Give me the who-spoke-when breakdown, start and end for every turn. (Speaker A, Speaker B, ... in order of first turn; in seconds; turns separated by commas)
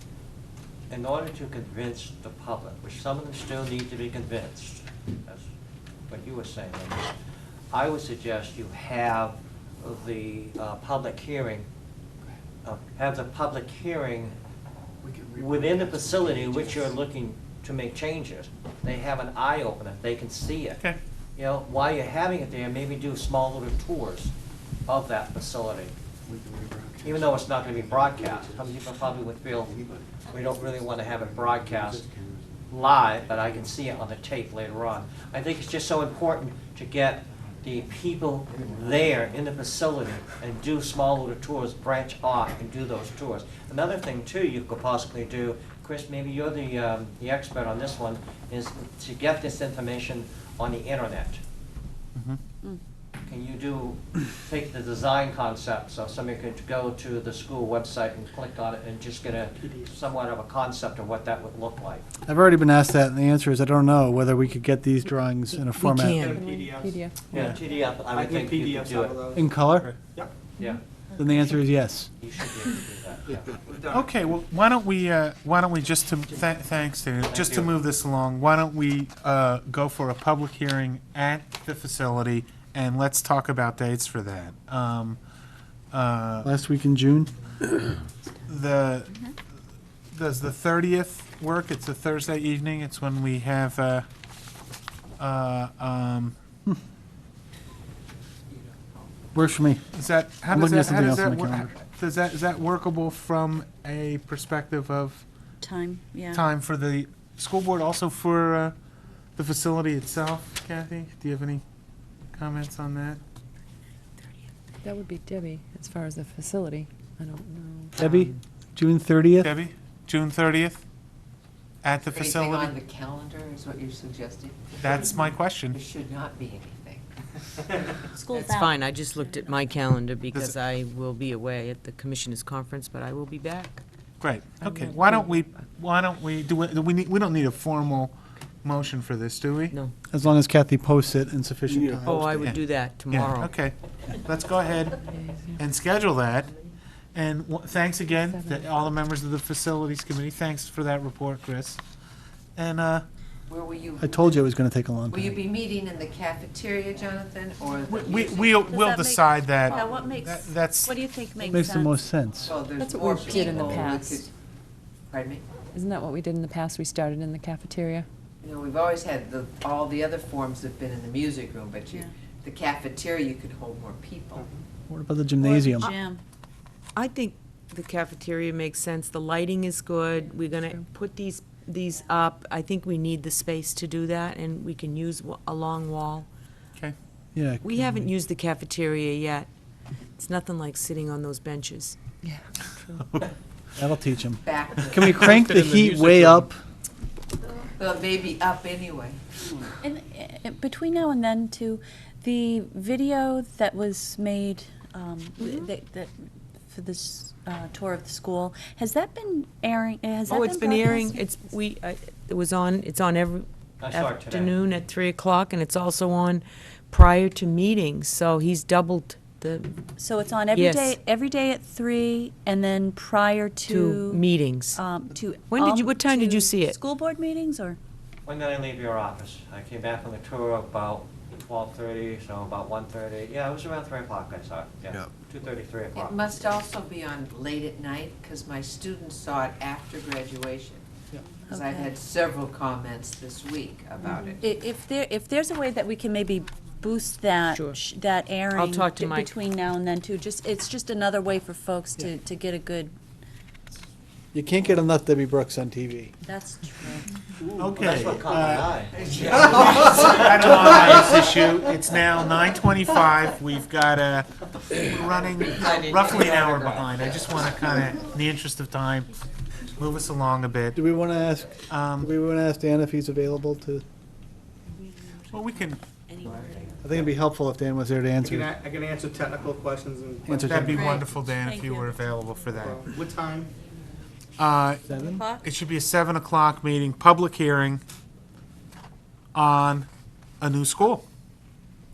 Speaker A: 0.9-5.5, Speaker A: 6.1-7.1, Speaker A: 7.7-11.7, Speaker A: 12.6-14.3, Speaker B: 15.0-16.9, Speaker A: 15.3-20.8, Speaker A: 21.4-24.3, Speaker A: 24.9-25.9, Speaker B: 26.3-28.7, Speaker A: 27.0-29.8, Speaker B: 29.6-34.0, Speaker A: 30.3-32.1, Speaker A: 32.7-51.4, Speaker B: 38.5-39.2, Speaker A: 53.3-62.0, Speaker C: 59.6-60.0, Speaker D: 62.3-66.3, Speaker E: 65.5-66.5, Speaker C: 66.1-67.0, Speaker F: 66.2-67.4, Speaker A: 67.3-69.2, Speaker C: 68.0-69.5, Speaker D: 69.4-69.9, Speaker D: 71.2-72.1, Speaker A: 72.2-73.6, Speaker C: 73.6-74.1, Speaker G: 73.9-85.2, Speaker A: 77.3-77.7, Speaker G: 85.9-86.5, Speaker D: 86.4-87.3, Speaker G: 88.5-89.2, Speaker G: 90.1-94.1, Speaker G: 95.2-96.4, Speaker D: 99.3-99.8, Speaker G: 99.9-105.2, Speaker D: 100.5-101.8, Speaker H: 105.6-106.5, Speaker G: 106.3-108.8, Speaker G: 109.4-111.6, Speaker G: 112.3-113.2, Speaker F: 114.8-118.0, Speaker D: 118.0-119.5, Speaker E: 118.0-118.4, Speaker G: 119.4-120.8, Speaker G: 121.8-122.8, Speaker I: 122.1-128.0, Speaker G: 124.8-125.8, Speaker H: 128.1-128.7, Speaker E: 128.3-133.8, Speaker G: 130.3-130.6, Speaker G: 134.2-139.8, Speaker D: 140.1-142.5, Speaker E: 142.0-143.5, Speaker G: 142.3-145.0, Speaker F: 145.1-145.6, Speaker G: 145.6-146.5, Speaker G: 147.1-151.8, Speaker F: 148.2-148.6, Speaker G: 152.6-153.1, Speaker I: 153.5-154.5, Speaker D: 154.0-155.4, Speaker I: 155.1-158.8, Speaker G: 157.9-160.9, Speaker H: 158.7-161.9, Speaker I: 159.5-160.2, Speaker D: 161.5-162.6, Speaker I: 162.4-164.3, Speaker F: 162.8-164.2, Speaker A: 162.9-163.8, Speaker I: 165.1-165.4, Speaker F: 165.7-168.1, Speaker I: 168.4-174.5, Speaker C: 174.3-174.6, Speaker D: 174.9-175.9, Speaker H: 175.4-176.2, Speaker E: 176.9-186.3, Speaker F: 180.5-180.8, Speaker D: 187.3-188.1, Speaker E: 187.6-189.5, Speaker E: 190.2-192.0, Speaker G: 193.0-193.3, Speaker D: 193.8-196.6, Speaker I: 194.4-195.3, Speaker C: 195.2-196.5, Speaker I: 197.8-199.2, Speaker H: 199.8-206.1, Speaker E: 205.4-205.7, Speaker H: 206.7-211.2, Speaker E: 210.3-219.8, Speaker A: 213.8-214.6, Speaker H: 220.0-227.8, Speaker E: 220.5-221.0, Speaker E: 223.7-224.8, Speaker E: 225.5-226.8, Speaker A: 228.2-236.5, Speaker I: 235.9-240.9, Speaker H: 241.3-241.9, Speaker I: 241.5-244.4, Speaker H: 244.4-253.0, Speaker E: 247.5-247.8, Speaker E: 248.5-249.4, Speaker D: 254.3-256.1, Speaker H: 256.2-257.2, Speaker G: 257.6-258.8, Speaker A: 257.7-260.2, Speaker C: 259.0-260.6, Speaker G: 259.4-269.1, Speaker G: 269.8-270.8, Speaker D: 270.8-273.8, Speaker G: 271.7-272.1, Speaker E: 274.8-276.8, Speaker G: 275.3-275.8, Speaker D: 276.8-278.5, Speaker C: 278.2-280.8, Speaker D: 280.3-280.9, Speaker G: 280.4-282.8, Speaker H: 280.6-282.5, Speaker C: 282.6-283.5, Speaker G: 284.4-287.8, Speaker D: 284.8-285.3, Speaker H: 285.0-285.4, Speaker G: 289.3-289.9, Speaker G: 290.4-291.1